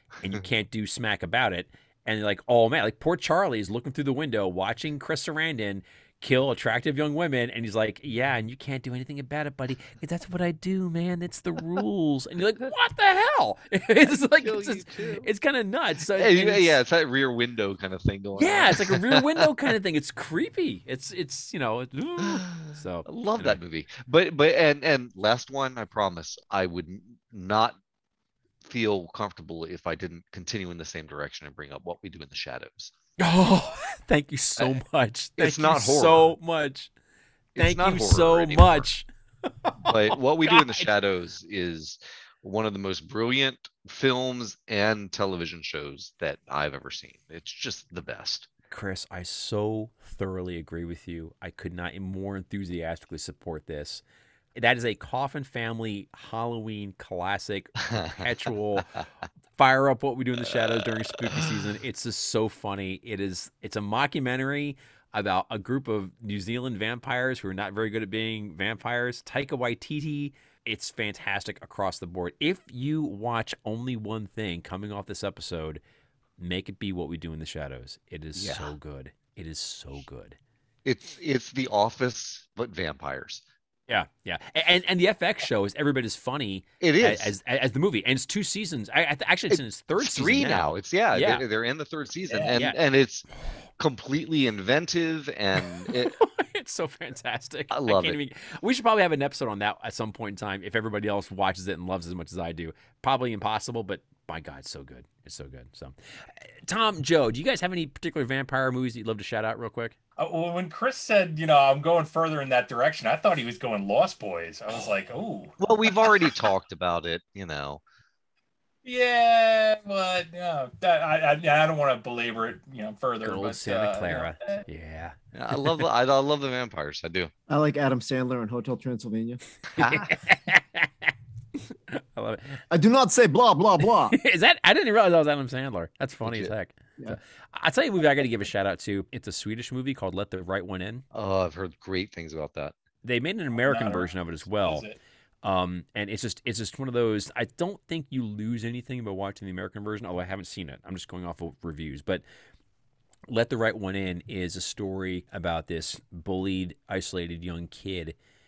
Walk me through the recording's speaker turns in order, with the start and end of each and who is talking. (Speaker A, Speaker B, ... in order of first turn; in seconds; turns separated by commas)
Speaker A: 0.2-16.8, Speaker B: 14.4-15.3, Speaker B: 16.1-19.5, Speaker A: 18.4-23.6, Speaker B: 22.4-27.8, Speaker B: 28.6-33.0, Speaker A: 33.2-36.9, Speaker B: 35.4-36.4, Speaker B: 37.5-38.9, Speaker A: 37.6-39.1, Speaker A: 39.7-40.9, Speaker B: 39.8-48.5, Speaker A: 48.7-54.0, Speaker A: 54.5-58.9, Speaker B: 57.9-58.2, Speaker A: 59.6-75.8, Speaker B: 60.5-61.5, Speaker A: 76.4-80.4, Speaker B: 78.3-78.7, Speaker B: 80.8-83.4, Speaker A: 83.9-91.4, Speaker B: 86.8-87.3, Speaker B: 89.5-93.3, Speaker C: 92.3-92.6, Speaker A: 92.5-92.8, Speaker B: 93.8-96.2, Speaker A: 95.7-110.0, Speaker B: 97.7-98.2, Speaker C: 110.2-116.3, Speaker B: 115.6-117.8, Speaker C: 118.8-124.6, Speaker A: 123.2-125.2, Speaker B: 125.3-127.3, Speaker D: 127.5-129.4, Speaker A: 129.8-131.1, Speaker B: 129.8-130.1, Speaker A: 131.7-132.6, Speaker D: 132.7-134.2, Speaker A: 134.1-141.0, Speaker B: 136.2-136.5, Speaker B: 141.1-142.7, Speaker A: 143.0-144.9, Speaker C: 143.5-145.0, Speaker A: 145.4-152.2, Speaker A: 153.3-158.2